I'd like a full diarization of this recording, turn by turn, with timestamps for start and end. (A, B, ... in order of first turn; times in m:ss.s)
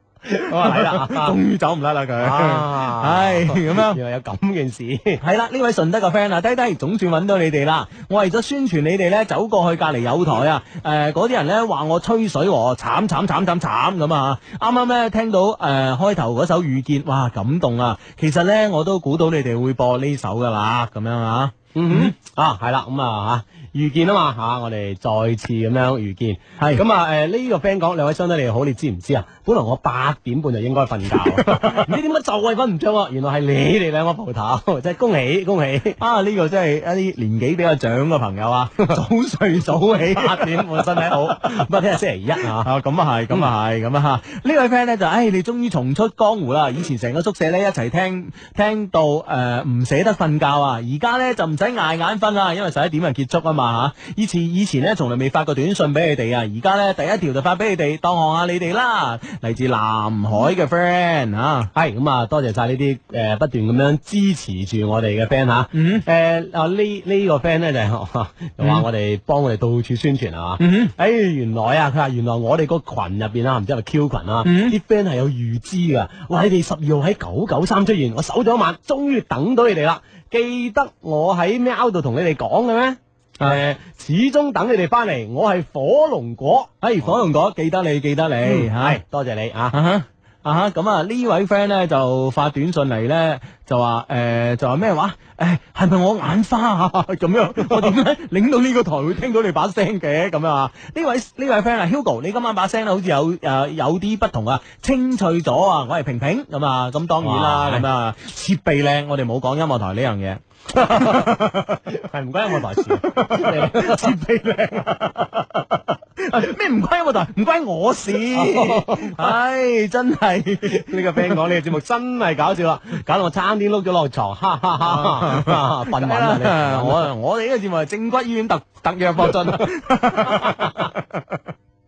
0:00.3-0:01.4 A
0:00.4-0:04.0 B
0:02.2-0:05.2 A
0:05.2-0:22.1 B
0:21.8-0:36.0 A
0:31.1-0:31.9 B
0:36.0-0:41.6 B
0:39.9-0:42.7 A
0:42.4-1:01.7 B
1:01.7-1:26.7 A
1:05.7-1:06.0 B
1:08.6-1:08.8 B
1:10.6-1:10.9 B
1:14.4-1:14.8 B
1:26.8-1:29.0 B
1:28.4-1:29.8 A
1:29.7-1:51.8 B
1:37.6-1:37.9 A
1:47.2-1:47.9 A
1:50.8-1:51.3 A
1:51.9-1:54.1 A
1:52.9-2:01.4 B
1:58.3-1:59.3 A
2:00.6-2:07.1 A
2:04.8-2:11.4 B
2:10.2-2:10.9 A